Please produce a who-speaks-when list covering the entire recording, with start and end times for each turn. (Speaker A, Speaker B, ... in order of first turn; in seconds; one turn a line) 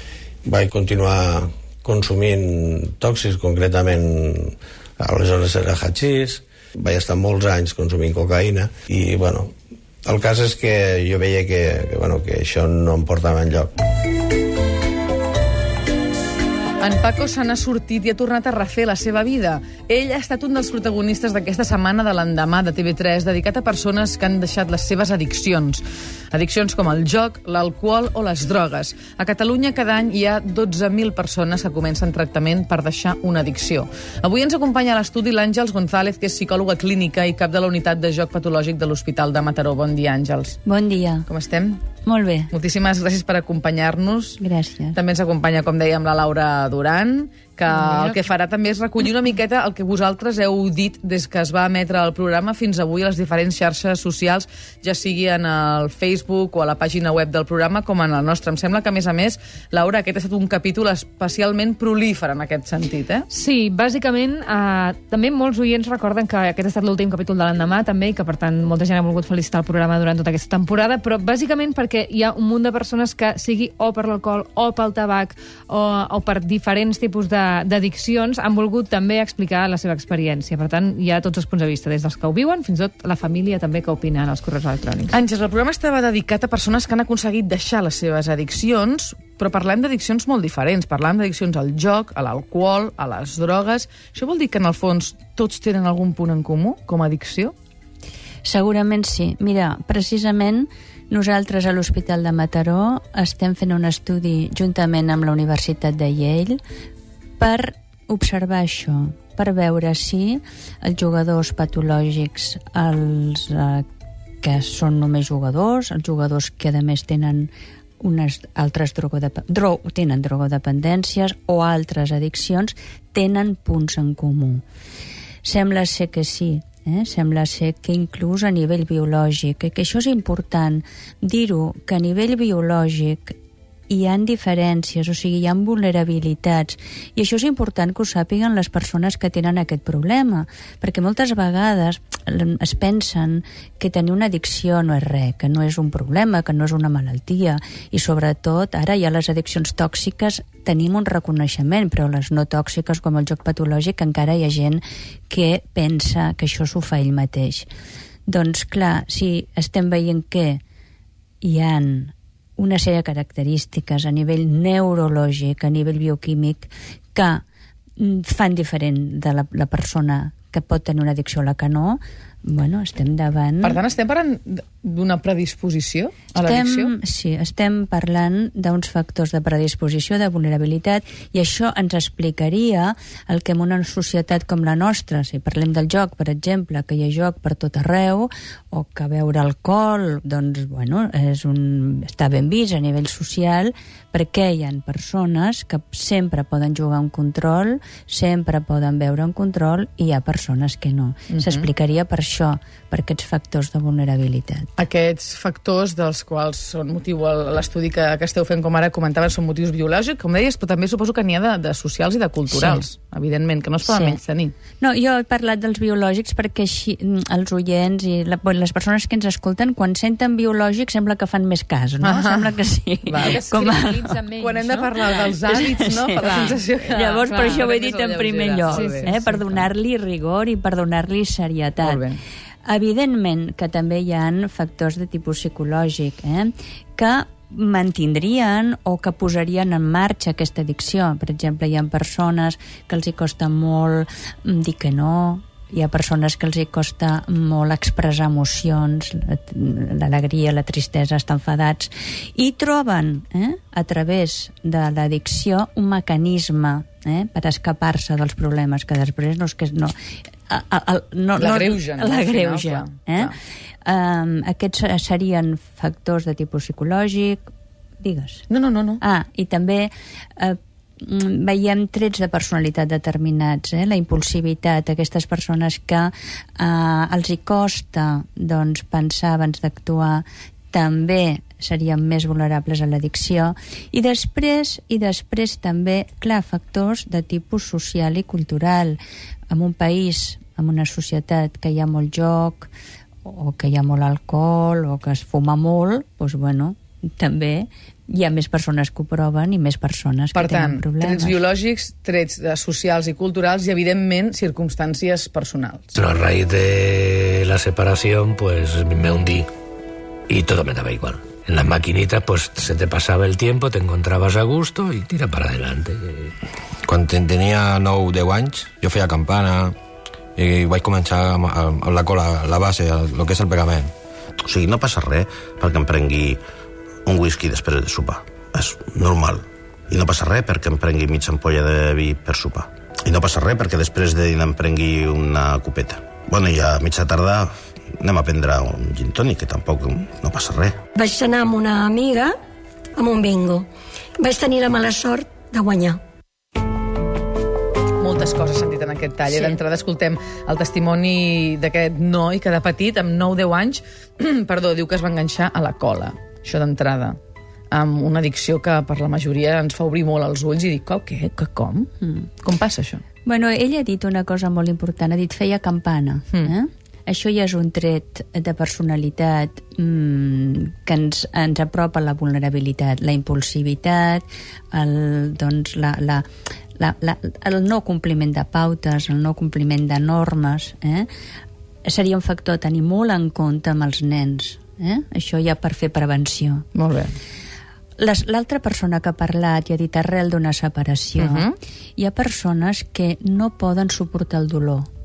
Speaker A: 0.5-9.5
Speaker A: 10.0-13.7
Speaker B: 16.8-40.6
Speaker C: 40.6-41.3
Speaker B: 41.2-41.8
Speaker C: 42.0-42.5
Speaker B: 42.5-44.4
Speaker C: 44.4-45.0
Speaker B: 44.9-63.2
Speaker D: 47.9-48.1
Speaker D: 63.3-85.1
Speaker B: 85.1-97.5
Speaker C: 98.4-106.6
Speaker C: 107.4-113.8
Speaker C: 114.4-124.6
Speaker C: 125.4-133.3
Speaker C: 133.9-157.7
Speaker C: 158.3-160.6
Speaker C: 161.4-167.4
Speaker C: 168.0-173.8
Speaker B: 173.6-176.9
Speaker C: 176.3-204.7
Speaker B: 201.3-201.7
Speaker B: 204.8-214.5
Speaker C: 212.5-212.8
Speaker C: 213.8-214.2
Speaker C: 214.8-224.2
Speaker B: 222.0-222.5
Speaker B: 223.1-223.8
Speaker D: 223.2-225.2
Speaker B: 224.4-229.1
Speaker C: 225.2-232.0
Speaker D: 226.2-227.6
Speaker D: 228.7-229.4
Speaker B: 231.8-232.2
Speaker C: 232.7-259.9
Speaker C: 260.5-263.3
Speaker B: 261.4-263.3
Speaker C: 263.8-268.4
Speaker B: 268.5-269.0
Speaker C: 269.0-289.0
Speaker C: 289.5-292.7
Speaker C: 293.2-301.4
Speaker B: 300.3-305.9
Speaker E: 305.9-309.5
Speaker E: 310.3-316.3
Speaker F: 316.8-319.8
Speaker F: 320.4-323.9
Speaker G: 324.4-326.4
Speaker G: 327.1-340.8
Speaker H: 340.9-342.4
Speaker H: 342.9-346.0
Speaker B: 348.0-357.2
Speaker B: 357.7-361.9
Speaker B: 362.4-363.0
Speaker C: 363.2-381.1
Speaker C: 381.9-386.7
Speaker B: 386.7-387.1
Speaker C: 388.0-394.9
Speaker B: 391.2-391.5